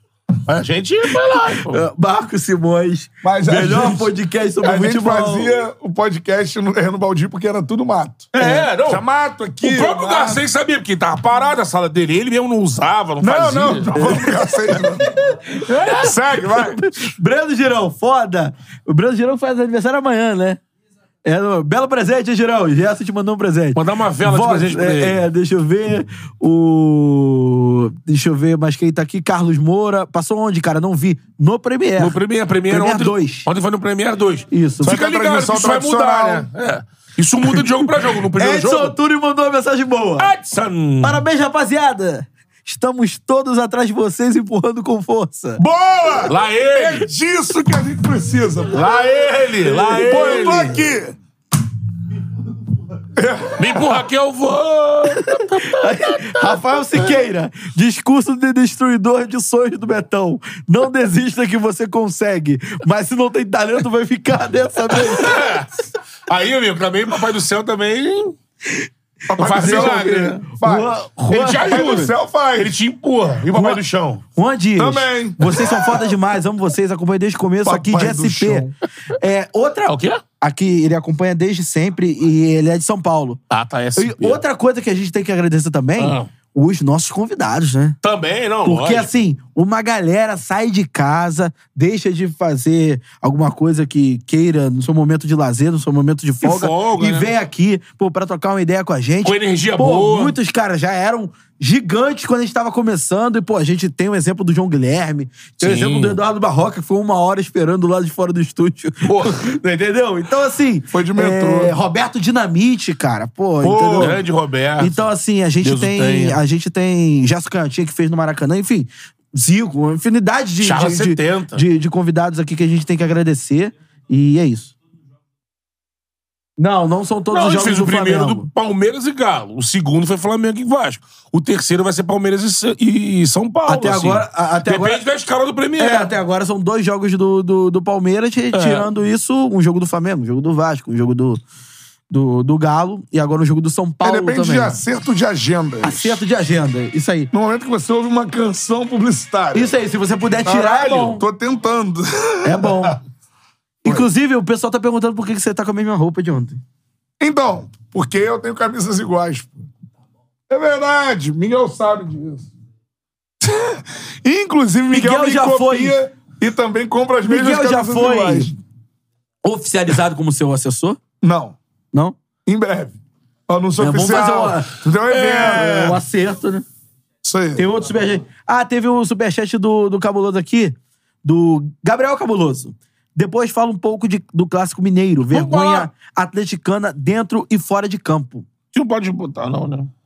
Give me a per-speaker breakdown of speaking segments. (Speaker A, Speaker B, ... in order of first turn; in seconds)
Speaker A: 0.5-1.8, 8.4-9.0, 9.6-14.2, 15.7-16.1, 23.8-25.2, 32.0-38.9, 40.2-41.2, 46.2-47.1, 48.7-50.8, 53.5-57.1, 64.9-65.7, 66.3-68.3, 69.3-70.4, 71.3-74.2, 79.9-80.2, 83.5-84.4, 86.0-86.3, 88.0-89.1, 96.4-97.3, 99.2-100.3, 105.6-106.2, 109.0-109.6, 114.0-115.0, 115.6-116.4, 120.6-121.6, 127.3-136.1, 138.5-138.9, 175.1-176.0, 185.3-185.9, 188.7-189.9
Speaker B: 1.2-5.6, 8.3-8.7, 13.9-20.6, 21.2-32.2, 32.7-33.5, 34.5-35.0, 38.3-40.3, 41.0-45.6, 50.0-50.7, 55.1-65.5, 69.4-72.0, 74.3-83.4, 84.0-88.0, 88.6-114.2, 114.8-124.7, 126.6-128.5, 133.7-135.0, 135.8-141.4, 142.1-144.8, 145.8-147.3, 149.5-151.2, 152.4-153.0, 153.8-156.6, 164.9-166.0, 167.2-168.5, 169.4-171.0, 173.8-174.7, 175.2-176.6, 177.6-188.4
Speaker C: 3.2-10.4, 13.2-15.1, 15.8-16.9, 34.8-36.5, 45.6-48.9, 49.6-51.1, 53.1-54.0, 69.3-71.0, 71.6-72.8, 73.5-73.8, 74.8-75.8, 77.6-78.7, 110.9-111.7, 113.6-114.2, 144.0-146.2, 147.3-149.7, 150.4-153.0, 157.2-159.6, 160.5-162.5, 163.4-168.5, 171.2-171.6, 172.4-173.0, 173.5-175.8, 177.2-177.7